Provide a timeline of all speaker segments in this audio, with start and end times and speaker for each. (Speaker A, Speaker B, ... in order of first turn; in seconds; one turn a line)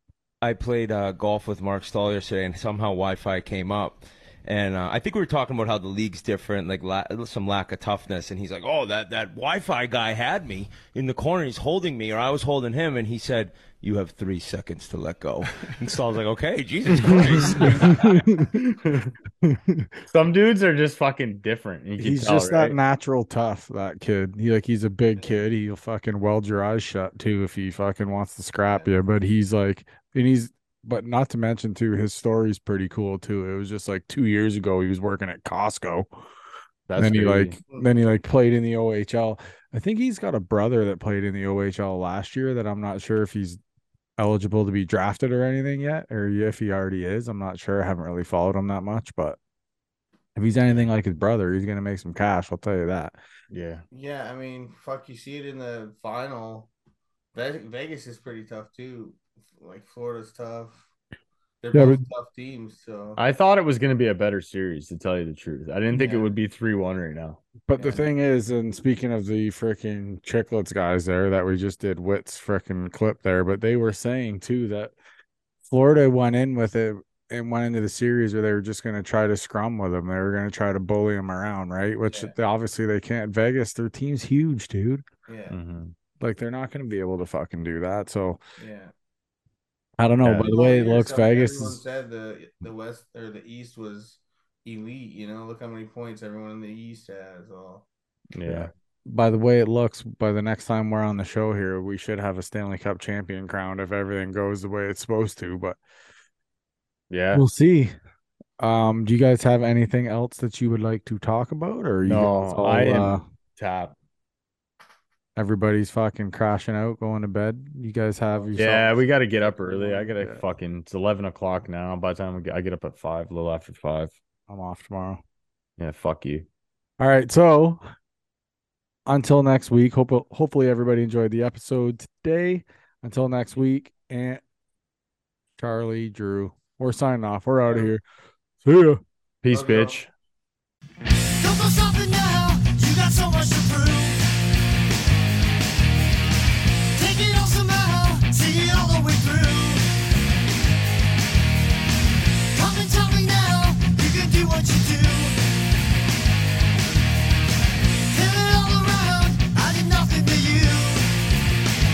Speaker A: 0.4-18.2
Speaker B: 17.4-18.6
Speaker B: 19.4-19.9
Speaker C: 20.1-22.8
Speaker B: 22.0-36.1
Speaker D: 28.7-29.0
Speaker C: 36.9-37.6
Speaker B: 37.0-43.6
Speaker B: 44.2-49.4
Speaker B: 50.4-53.2
Speaker C: 53.5-53.8
Speaker D: 53.9-56.7
Speaker D: 57.3-60.9
Speaker D: 61.6-63.2
Speaker B: 61.7-62.0
Speaker C: 63.1-67.4
Speaker D: 65.9-66.3
Speaker B: 67.7-74.9
Speaker D: 67.8-68.0
Speaker B: 75.7-85.0
Speaker D: 82.1-82.3
Speaker D: 85.3-85.5
Speaker C: 85.5-85.9
Speaker B: 86.2-88.4
Speaker D: 88.6-88.9
Speaker B: 90.0-91.8
Speaker C: 90.2-90.5
Speaker D: 90.5-97.9
Speaker C: 98.3-98.7
Speaker B: 98.5-105.8
Speaker C: 107.1-107.4
Speaker B: 107.3-107.9
Speaker B: 108.6-113.2
Speaker C: 112.0-114.0
Speaker B: 115.3-119.0
Speaker D: 118.3-118.7
Speaker C: 118.5-124.2
Speaker B: 119.9-120.4
Speaker B: 124.5-125.2
Speaker C: 125.8-126.5
Speaker B: 127.0-127.8
Speaker B: 129.1-134.4
Speaker B: 135.6-138.0
Speaker D: 137.7-137.9
Speaker B: 138.6-139.0
Speaker C: 139.4-140.1
Speaker D: 139.5-140.0
Speaker E: 141.4-144.2
Speaker E: 146.9-149.9
Speaker E: 152.5-155.4
Speaker E: 158.1-161.1